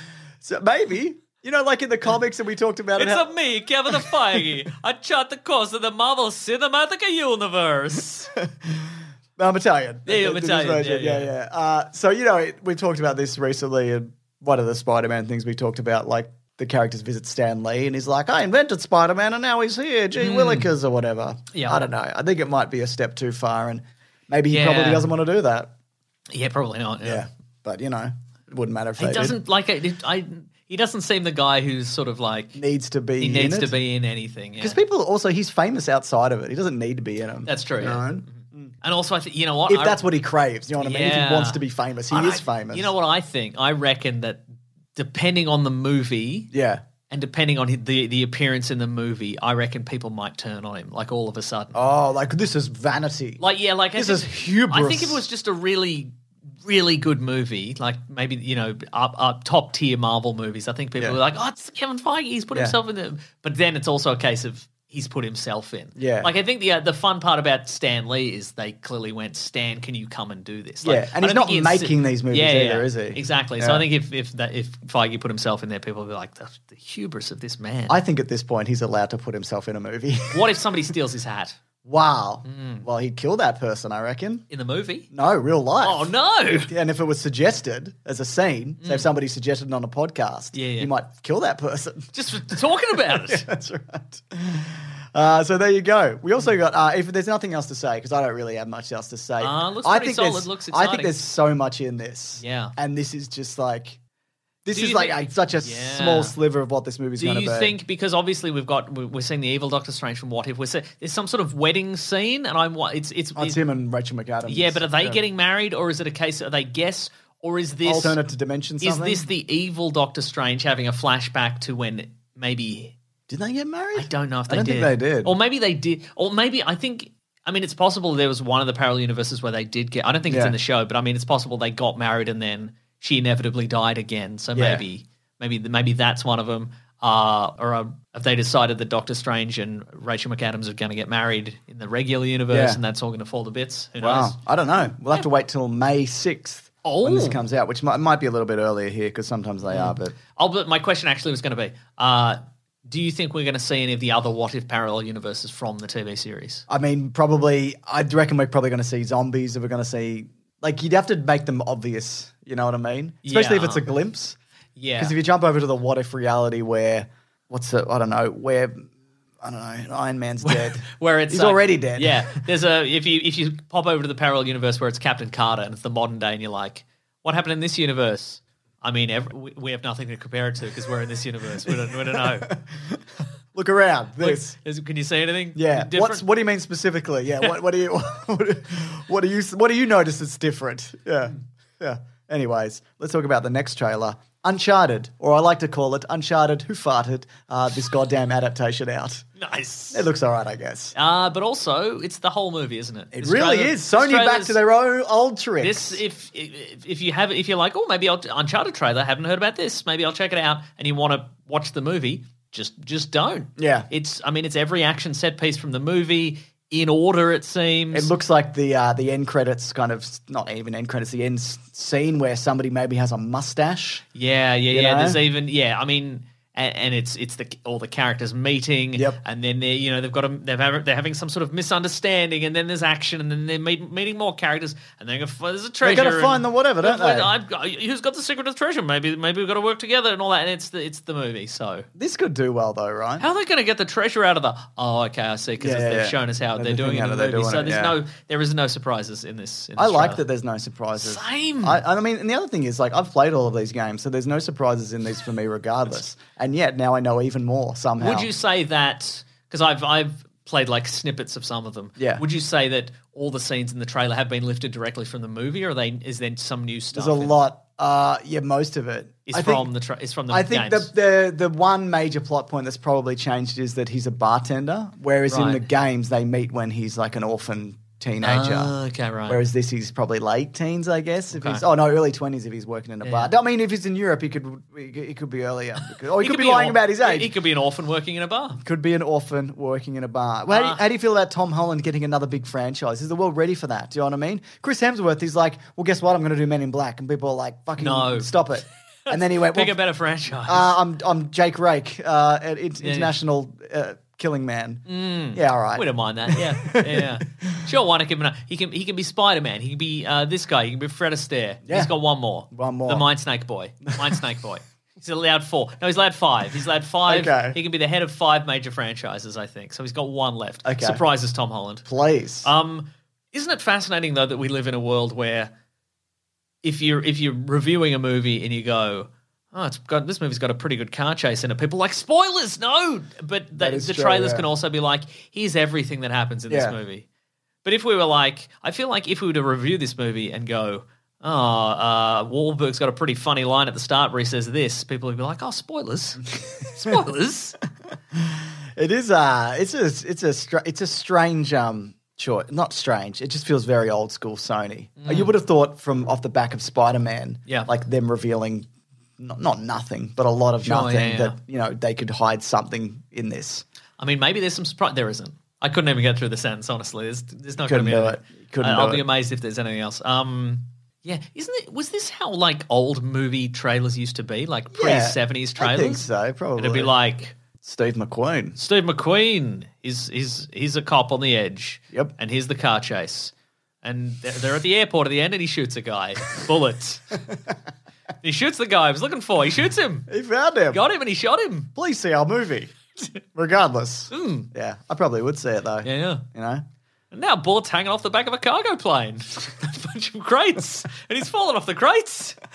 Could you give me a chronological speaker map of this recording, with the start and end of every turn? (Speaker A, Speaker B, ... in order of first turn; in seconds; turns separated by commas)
Speaker A: 0.4-3.3, Speaker B: 3.0-8.3, Speaker A: 3.9-4.4, Speaker A: 8.4-25.7, Speaker B: 10.1-11.3, Speaker B: 20.2-20.7, Speaker B: 21.5-21.8, Speaker B: 24.5-25.1, Speaker B: 26.3-27.2, Speaker A: 27.0-29.4, Speaker B: 29.0-32.6, Speaker A: 32.5-33.8, Speaker B: 33.2-34.8, Speaker A: 34.6-38.7, Speaker B: 37.5-40.0, Speaker A: 39.7-42.9, Speaker B: 40.8-46.5, Speaker A: 46.5-46.8, Speaker B: 47.1-51.8, Speaker A: 51.7-53.4, Speaker B: 53.4-56.1, Speaker A: 53.9-55.2, Speaker B: 56.6-78.0, Speaker A: 66.0-66.3, Speaker A: 70.8-73.8, Speaker A: 77.9-80.6, Speaker B: 80.3-81.6, Speaker A: 81.8-84.5, Speaker B: 82.5-82.8, Speaker B: 84.5-85.1, Speaker A: 85.1-104.0, Speaker B: 85.8-86.7, Speaker B: 88.8-89.1, Speaker B: 90.5-90.9, Speaker B: 92.1-93.5, Speaker B: 99.4-101.2, Speaker B: 102.4-102.7, Speaker A: 104.7-107.8, Speaker B: 104.7-106.4, Speaker B: 107.2-113.6, Speaker A: 113.4-115.2, Speaker B: 114.5-118.2, Speaker A: 117.8-119.3, Speaker B: 118.8-122.9, Speaker A: 123.3-125.3, Speaker B: 124.0-144.4, Speaker A: 130.3-130.6, Speaker A: 134.6-134.8, Speaker A: 142.5-142.8, Speaker A: 144.0-150.2, Speaker B: 146.8-147.4, Speaker B: 149.7-156.6, Speaker A: 156.7-164.4, Speaker B: 163.2-163.8, Speaker B: 164.8-165.1, Speaker A: 165.0-168.9, Speaker A: 169.4-172.4, Speaker B: 170.4-182.5, Speaker A: 181.7-183.0, Speaker A: 183.5-184.6, Speaker B: 184.2-186.2, Speaker A: 185.6-199.3, Speaker B: 199.4-200.1, Speaker A: 199.9-200.9, Speaker B: 200.9-204.6, Speaker A: 203.1-206.0, Speaker B: 205.6-218.1, Speaker A: 213.6-213.9, Speaker A: 217.9-224.1, Speaker B: 224.2-241.9, Speaker A: 224.7-225.2, Speaker A: 235.8-237.3, Speaker A: 241.9-243.2, Speaker B: 243.2-250.2, Speaker A: 245.6-248.0, Speaker A: 249.8-258.3, Speaker B: 251.0-251.8, Speaker B: 258.0-267.4, Speaker A: 262.0-262.2, Speaker A: 266.9-269.7, Speaker B: 269.3-270.9, Speaker A: 270.3-278.7, Speaker B: 275.3-275.7, Speaker B: 278.2-279.4, Speaker A: 279.3-287.3, Speaker B: 281.3-281.6, Speaker B: 283.0-283.3, Speaker B: 285.8-288.6, Speaker A: 288.6-299.8, Speaker B: 290.5-290.8, Speaker B: 297.8-298.3, Speaker B: 299.1-300.8, Speaker A: 300.4-307.6, Speaker B: 302.8-303.1, Speaker B: 304.9-321.9, Speaker A: 311.7-311.9, Speaker A: 312.5-313.1, Speaker A: 317.1-317.6, Speaker A: 320.6-321.0, Speaker A: 321.9-322.5, Speaker B: 322.4-325.5, Speaker B: 326.6-337.1, Speaker A: 333.6-334.5, Speaker A: 336.5-336.8, Speaker B: 337.6-347.6, Speaker A: 346.4-346.9, Speaker A: 348.1-363.6, Speaker B: 355.0-355.4, Speaker B: 360.6-361.4, Speaker B: 364.0-376.1, Speaker A: 367.6-369.0, Speaker A: 374.7-376.9, Speaker B: 376.6-377.4, Speaker A: 377.6-378.6, Speaker B: 378.6-387.2, Speaker A: 387.2-387.5, Speaker B: 388.2-390.1, Speaker A: 390.1-390.8, Speaker B: 390.7-391.7, Speaker A: 391.8-396.6, Speaker B: 394.1-394.5, Speaker B: 395.8-396.2, Speaker B: 397.1-402.4